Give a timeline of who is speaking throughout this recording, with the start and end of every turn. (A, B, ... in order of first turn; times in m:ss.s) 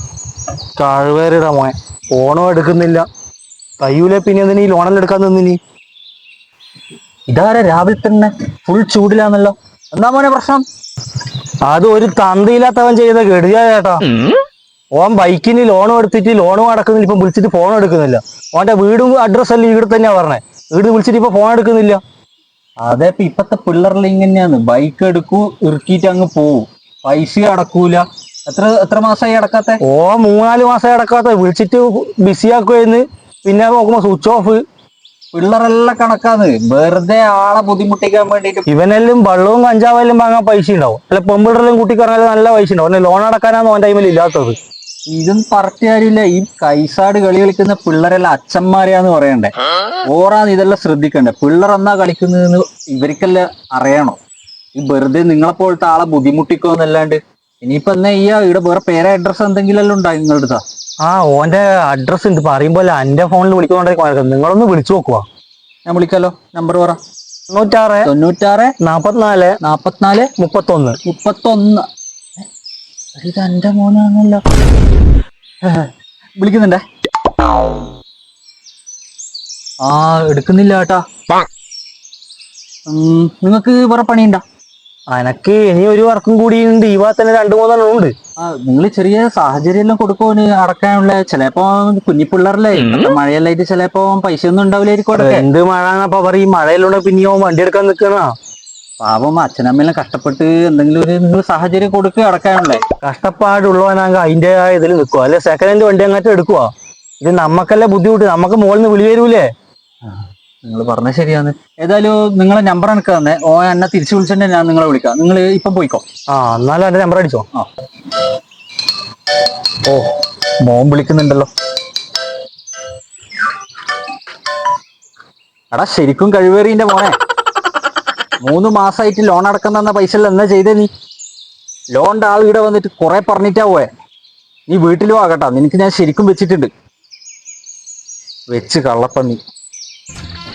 0:00.8-0:03.1 A
0:03.8-0:05.6 A
0:07.3-0:10.6 B
0:11.6-0:14.1 A
0:15.0-0:22.0 A
0:22.8-0:29.8 B
0:29.8-0:34.6 A
0:35.3-0:38.7 B
0:38.7-0:44.6 A
0:45.1-0:49.5 B
0:50.0-0:54.2 B
0:54.8-1:00.6 B
1:01.0-1:05.3 A
1:05.9-1:07.0 B
1:07.5-1:08.1 A
1:08.0-1:08.8 B
1:08.8-1:09.6 A
1:09.6-1:10.3 B
1:10.4-1:11.0 A
1:11.0-1:11.9 B
1:13.2-1:14.4 B
1:15.6-1:16.8 B
1:19.8-1:21.0 B
1:22.9-1:24.4 B
1:25.1-1:28.1 A
1:28.4-1:35.4 B
1:35.2-1:38.3 A
1:39.0-1:42.8 B
1:43.0-1:49.5 A
1:50.0-1:56.0 B
1:56.3-1:57.4 A
2:00.6-2:01.5 B
2:05.7-2:07.2 B
2:08.4-2:10.9 B
2:11.9-2:13.9 B
2:14.7-2:16.7 B
2:18.5-2:19.4 B